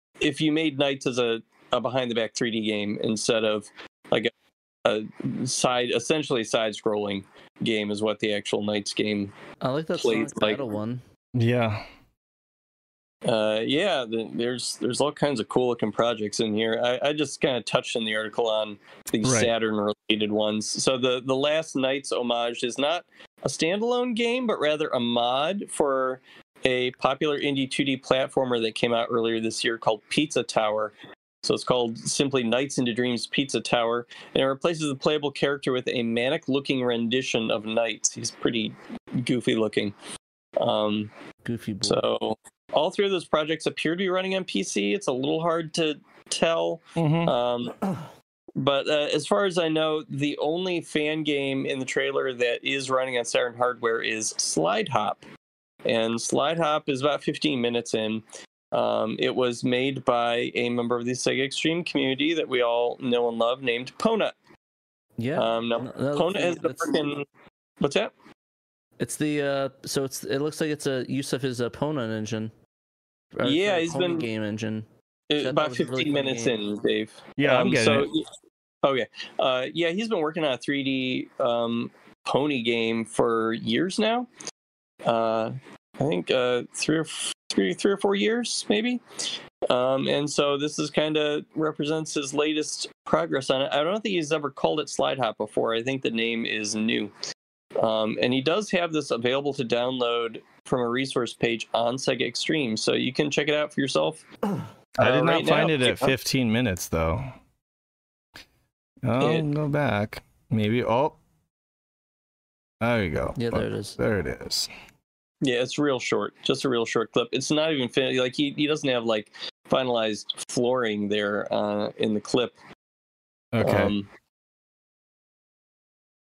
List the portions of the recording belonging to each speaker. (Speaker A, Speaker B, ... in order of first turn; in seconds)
Speaker A: 0.2-4.3, 4.8-9.3, 10.0-10.7, 13.2-39.9, 40.6-41.1, 41.9-47.9, 48.6-55.3, 55.9-64.3, 65.4-67.2, 67.8-68.1, 73.4-74.3, 75.3-78.3, 78.8-84.3, 85.0-89.0, 89.7-97.1, 97.8-104.2, 105.0-106.1, 109.2-109.5, 115.4-122.6, 123.6-124.1
Speaker B: 9.6-11.0, 41.5-42.0, 65.2-67.0, 69.0-72.5, 73.3-74.9, 75.4-76.6, 113.4-114.0
Speaker C: 11.3-11.9, 19.2-19.5, 47.0-47.4, 77.4-78.1, 105.0-107.3, 109.0-111.2, 112.8-114.7, 123.5-123.9